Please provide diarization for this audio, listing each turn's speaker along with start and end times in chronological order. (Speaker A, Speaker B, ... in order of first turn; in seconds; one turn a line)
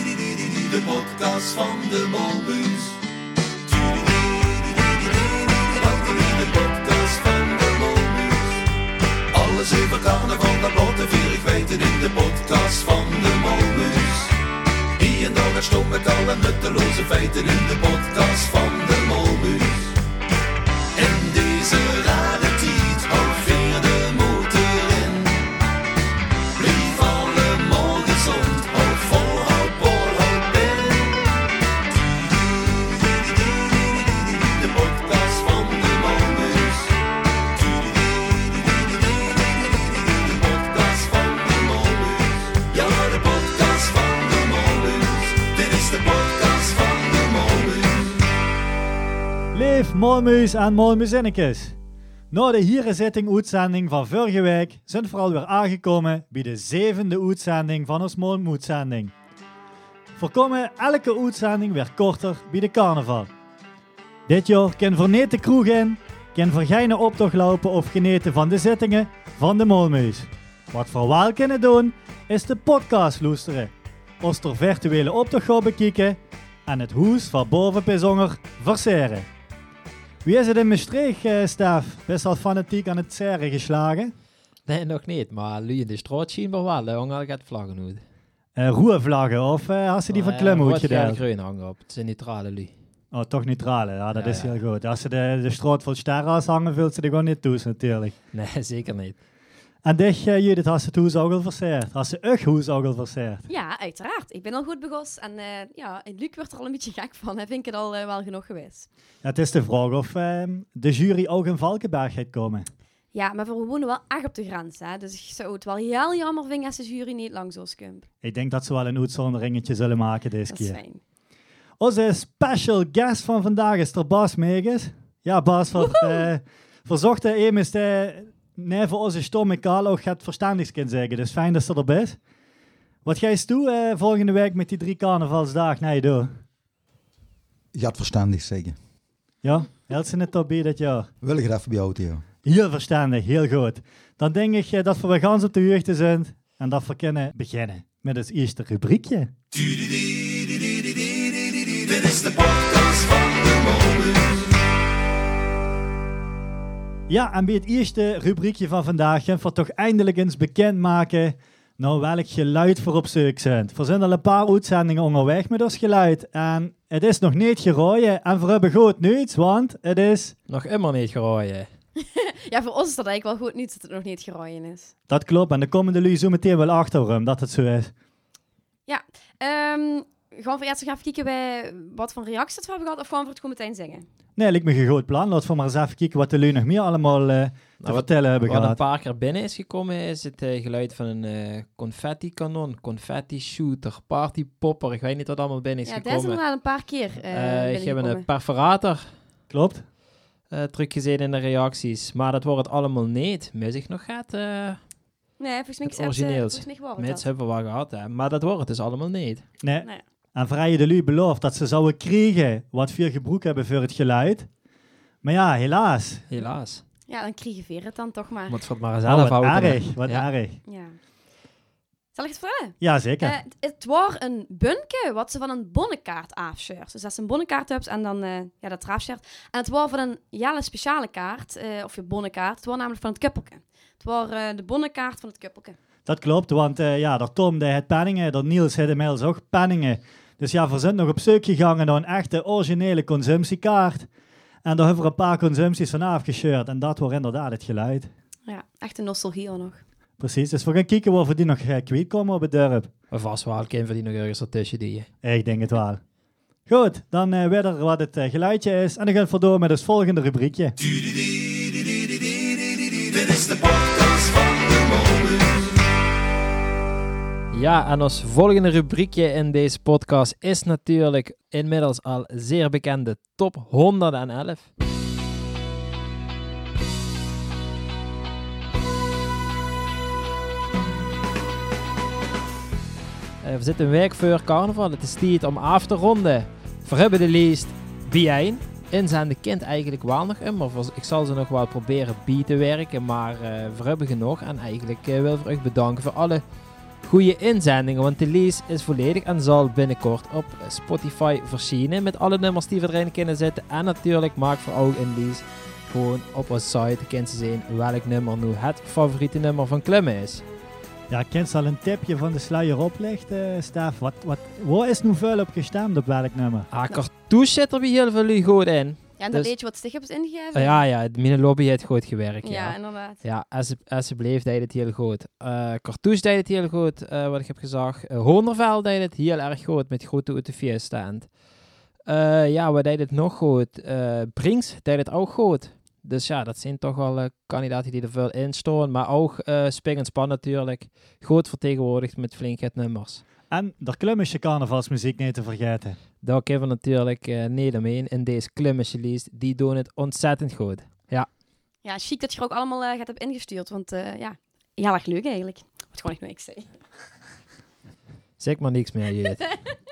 Speaker A: 0.3-2.9
Speaker A: 3.7-8.4
Speaker A: 9.3-14.3
Speaker A: 15.0-19.9
Speaker A: 20.9-25.4
Speaker A: 26.6-31.1
Speaker A: 32.8-36.9
Speaker A: 37.6-48.1
Speaker B: 49.5-51.7
Speaker B: 52.3-59.1
Speaker B: 60.1-63.3
Speaker B: 64.3-79.3
Speaker B: 80.2-84.1
Speaker C: 84.7-88.0
Speaker B: 88.5-91.2
Speaker C: 90.1-92.7
Speaker B: 93.1-98.1
Speaker C: 94.1-94.6
Speaker C: 98.3-99.2
Speaker B: 99.8-103.5
Speaker D: 103.5-108.9
Speaker B: 109.2-112.7
Speaker D: 113.1-118.0
Speaker B: 118.2-120.8
Speaker D: 120.5-121.0
Speaker B: 121.8-132.2
Speaker D: 125.8-126.2
Speaker B: 133.0-136.3
Speaker E: 137.7-138.8
Speaker B: 139.4-141.1
Speaker E: 141.2-142.2
Speaker B: 142.4-149.3
Speaker A: 151.9-153.1
Speaker B: 157.1-170.3
Speaker C: 170.5-171.7
Speaker D: 172.0-174.9
Speaker B: 175.1-177.9
Speaker D: 178.9-184.1
Speaker B: 184.3-188.8
Speaker C: 187.8-196.4
Speaker D: 195.8-198.2
Speaker C: 197.3-199.1
Speaker B: 199.5-199.8
Speaker C: 200.5-204.8
Speaker D: 205.4-207.3
Speaker C: 205.8-209.4
Speaker B: 209.6-214.5
Speaker B: 215.2-216.2
Speaker C: 216.3-216.8
Speaker D: 217.1-218.6
Speaker C: 218.5-220.2
Speaker B: 219.1-220.6
Speaker D: 220.7-221.0
Speaker D: 222.1-235.8
Speaker B: 222.8-223.3
Speaker B: 236.1-244.1
Speaker B: 244.6-248.1
Speaker D: 248.5-249.8
Speaker B: 250.2-252.9
Speaker C: 253.1-255.1
Speaker B: 255.2-256.0
Speaker B: 256.7-260.7
Speaker C: 267.5-274.7
Speaker C: 283.4-296.4
Speaker C: 297.0-310.4
Speaker B: 311.1-316.7
Speaker C: 316.7-319.5
Speaker D: 319.2-320.8
Speaker C: 320.5-331.3
Speaker D: 322.4-323.2
Speaker C: 332.1-343.2
Speaker B: 343.5-346.0
Speaker C: 346.2-351.3
Speaker D: 351.8-356.7
Speaker C: 358.4-359.4